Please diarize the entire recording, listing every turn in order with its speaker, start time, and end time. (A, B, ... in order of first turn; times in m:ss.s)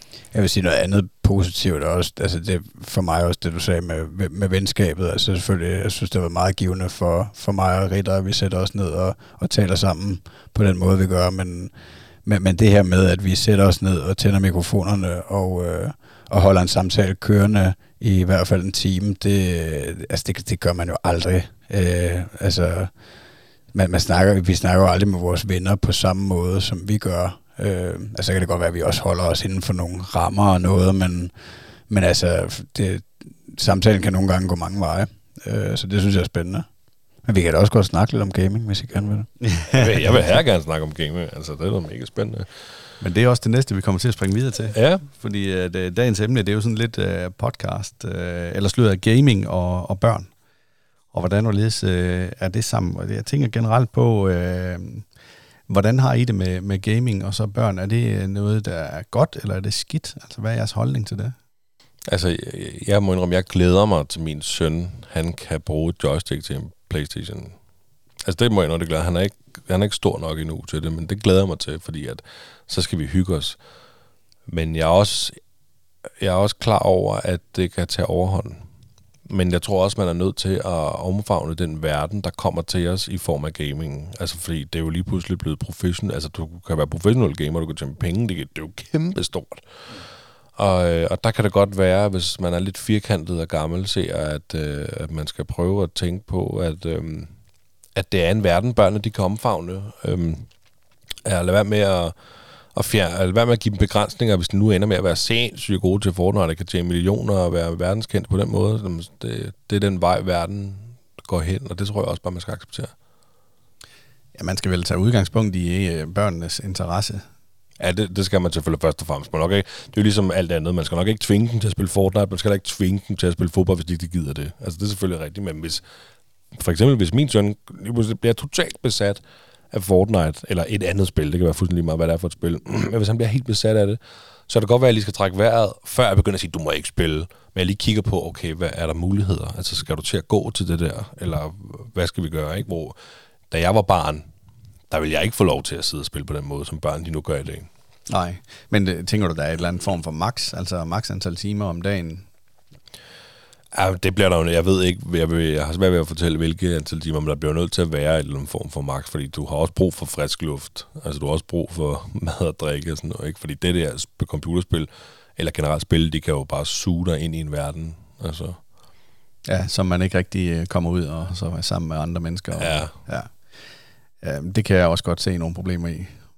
0:00.3-0:23.0 A
0:23.7-0:31.3 A
0:31.9-0:36.6 A
0:37.2-0:39.3 A
0:39.5-0:39.8 B
0:39.7-0:42.5 C
0:43.0-0:50.3 B
0:44.7-0:45.0 C
0:51.1-0:55.1 B
0:55.7-1:01.3 B
1:02.1-1:07.6 C
1:08.2-1:13.6 C
1:14.5-1:15.4 C
1:16.2-1:18.6 C
1:19.3-1:29.6 C
1:30.6-1:37.3 C
1:37.9-1:40.5 C
1:41.2-1:42.1 C
1:42.7-1:52.9 C
1:54.3-1:57.2 B
1:57.8-2:05.8 C
2:06.5-2:23.0 C
2:23.5-2:24.3 C
2:24.9-2:27.7 C
2:28.1-2:32.2 B
2:33.7-2:48.6 C
2:49.4-2:53.5 B
2:52.6-2:52.9 C
2:54.2-2:56.1 B